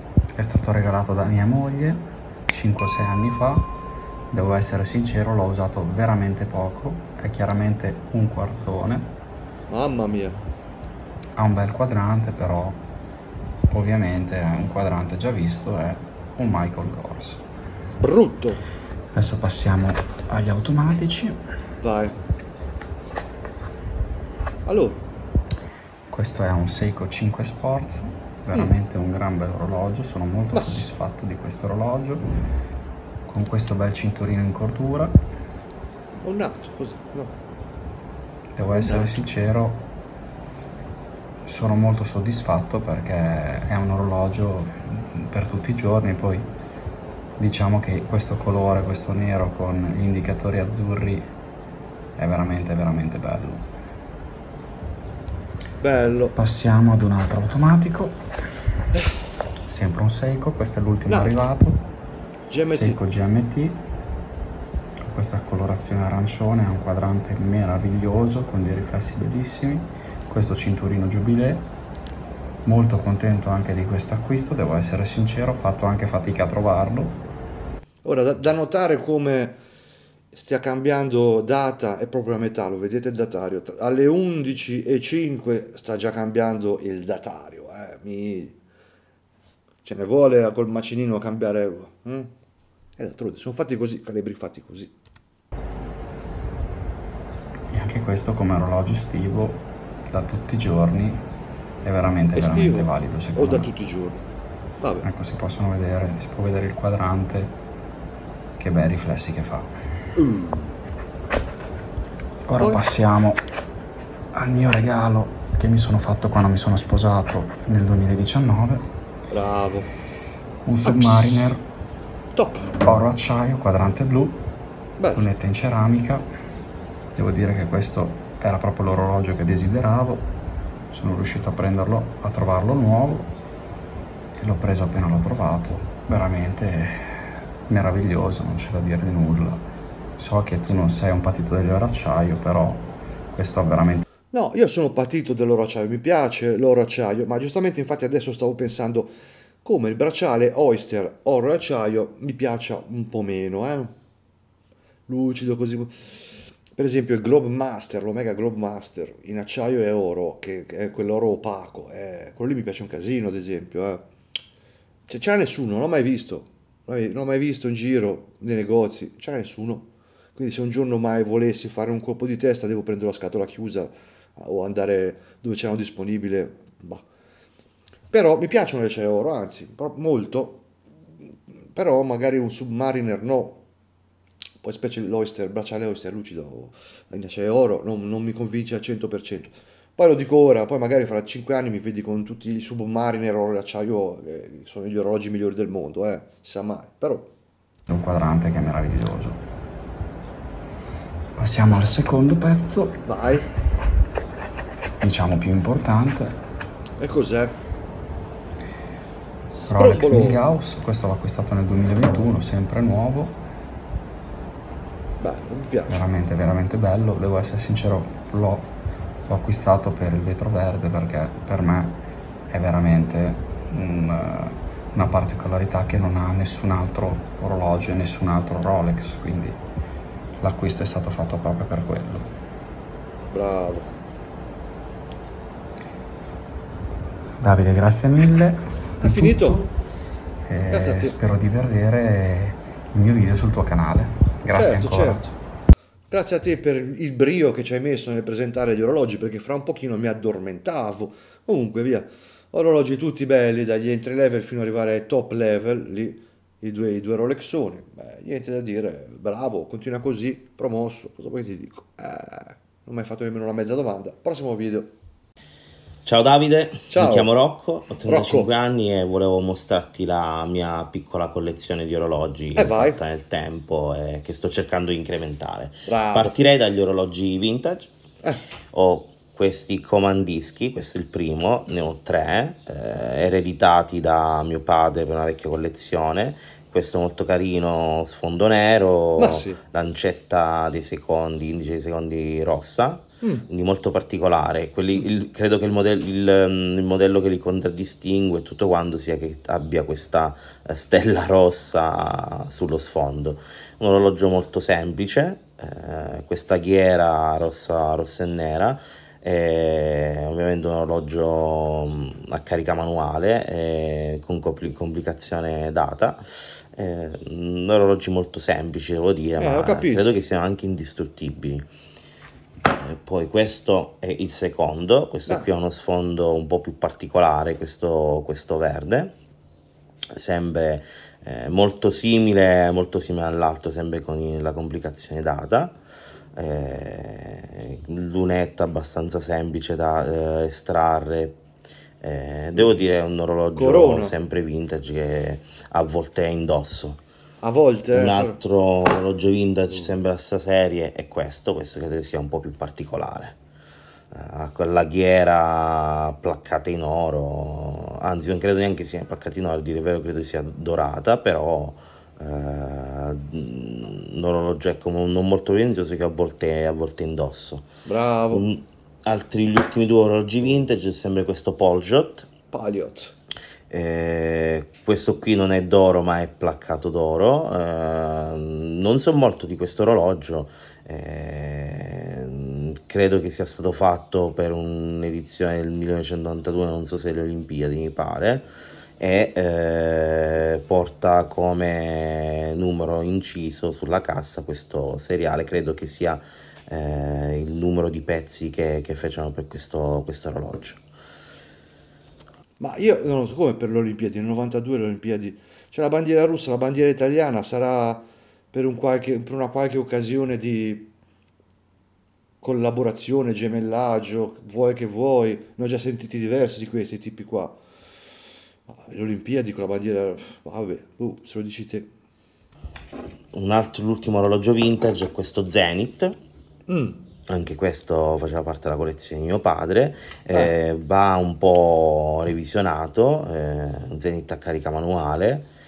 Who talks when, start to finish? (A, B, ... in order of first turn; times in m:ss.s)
0:00.3-0:03.7 A
0:04.3-0:09.1 A
0:09.7-0:10.4 B
0:11.4-0:12.8 A
0:13.7-0:17.4 A
0:18.0-0:18.6 B
0:19.1-0:21.4 A
0:21.8-0:22.2 B
0:24.6-0:25.0 B
0:26.1-0:32.2 A
0:30.5-0:30.9 B
0:33.2-0:35.1 A
0:36.2-0:37.4 B
0:38.6-0:39.9 A
0:38.7-0:39.2 B
0:41.4-0:46.5 A
0:47.4-0:51.3 A
0:52.2-0:53.7 A
0:55.8-0:56.4 B
0:56.3-0:58.2 A
0:59.7-1:01.8 A
1:01.1-1:01.4 B
1:02.5-1:03.0 B
1:02.7-1:03.8 A
1:05.0-1:11.7 A
1:12.6-1:17.2 A
1:18.0-1:19.6 B
1:20.3-1:28.6 B
1:29.8-1:32.3 B
1:33.0-1:34.9 B
1:37.7-1:41.2 A
1:41.8-1:43.7 A
1:42.3-1:44.2 B
1:44.8-1:45.1 B
1:45.0-1:47.5 A
1:48.6-1:49.8 A
1:50.2-1:50.8 B
1:52.5-1:53.4 A
1:52.6-1:52.8 B
1:54.3-1:58.9 A
1:59.3-1:59.9 B
2:00.6-2:01.6 A
2:00.8-2:01.2 B
2:02.3-2:02.8 B
2:02.8-2:04.4 A
2:05.0-2:05.3 B
2:05.1-2:06.2 A
2:07.1-2:10.3 A
2:10.9-2:13.3 A
2:14.3-2:24.0 A
2:24.3-2:33.9 B
2:35.1-2:44.0 B
2:45.1-2:57.0 B
2:58.1-3:00.6 B
3:01.6-3:03.6 B
3:04.6-3:17.3 B
3:17.9-3:19.4 A
3:21.4-3:23.0 A
3:23.0-3:23.5 B
3:25.0-3:26.4 A
3:27.0-3:27.6 B
3:29.5-3:30.4 B
3:29.7-3:33.4 A
3:35.2-3:36.1 B
3:35.9-3:38.7 A
3:39.3-3:49.6 A
3:50.4-3:52.3 A
3:53.3-3:53.9 B
3:57.4-3:59.7 A
3:59.0-3:59.6 B
4:00.4-4:05.3 A
4:00.7-4:01.1 B
4:04.5-4:05.3 B
4:06.1-4:24.9 B
4:26.0-4:37.9 C
4:26.9-4:27.3 B
4:28.0-4:28.5 B
4:32.6-4:33.0 B
4:35.9-4:36.4 B
4:38.7-5:16.2 C
4:49.2-4:49.6 B
5:16.7-5:21.6 C
5:19.4-5:20.1 B
5:22.7-5:29.1 C
5:30.1-5:35.8 C
5:36.4-5:41.4 C
5:42.0-5:47.0 C
5:42.6-5:42.8 B
5:43.5-5:44.1 B
5:47.4-5:48.4 B
5:47.9-5:53.4 C
5:54.1-6:07.7 C
6:07.8-6:08.4 B
6:08.3-6:12.3 C
6:12.5-6:13.1 B
6:13.7-6:28.5 C
6:29.0-6:40.8 C
6:42.6-6:50.9 B
6:52.4-6:57.6 B
6:58.7-7:01.9 B
7:03.3-7:06.2 C
7:06.7-7:07.0 B
7:07.3-7:15.5 C